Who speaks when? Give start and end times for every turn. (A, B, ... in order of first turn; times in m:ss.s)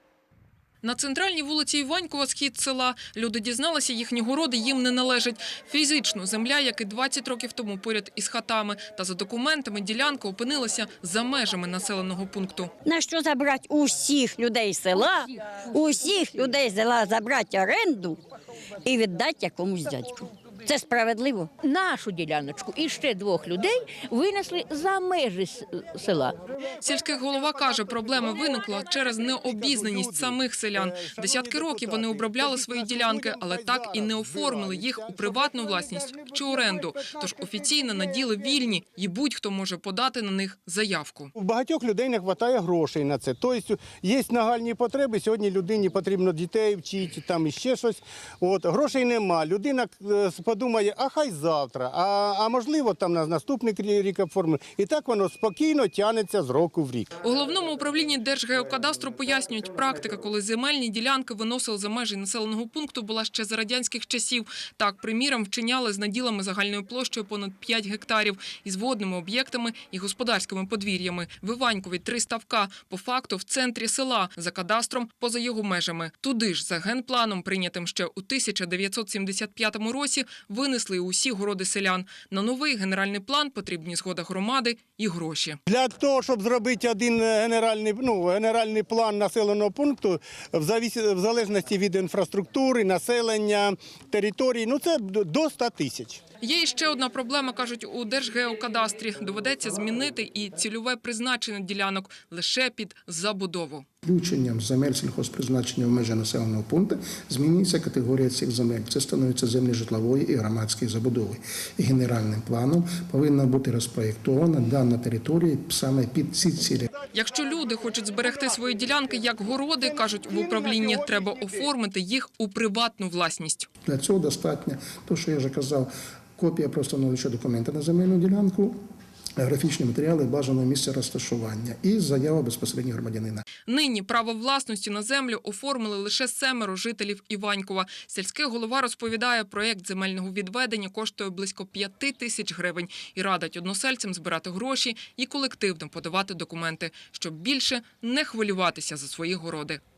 0:00.8-0:12.7 A
0:12.8-0:18.2 B
0:18.8-0:21.5 B
0:21.6-0:26.4 C
0:26.8-0:41.3 A
0:29.4-0:38.2 D
0:41.4-0:57.1 D
0:57.2-1:25.6 A
1:25.7-1:36.2 D
1:36.4-1:43.8 A
1:44.0-1:56.9 E
1:57.1-2:03.7 A
1:58.2-1:58.6 D
1:59.8-2:01.7 D
2:03.8-2:08.8 E
2:09.4-2:13.4 E
2:13.7-2:29.8 A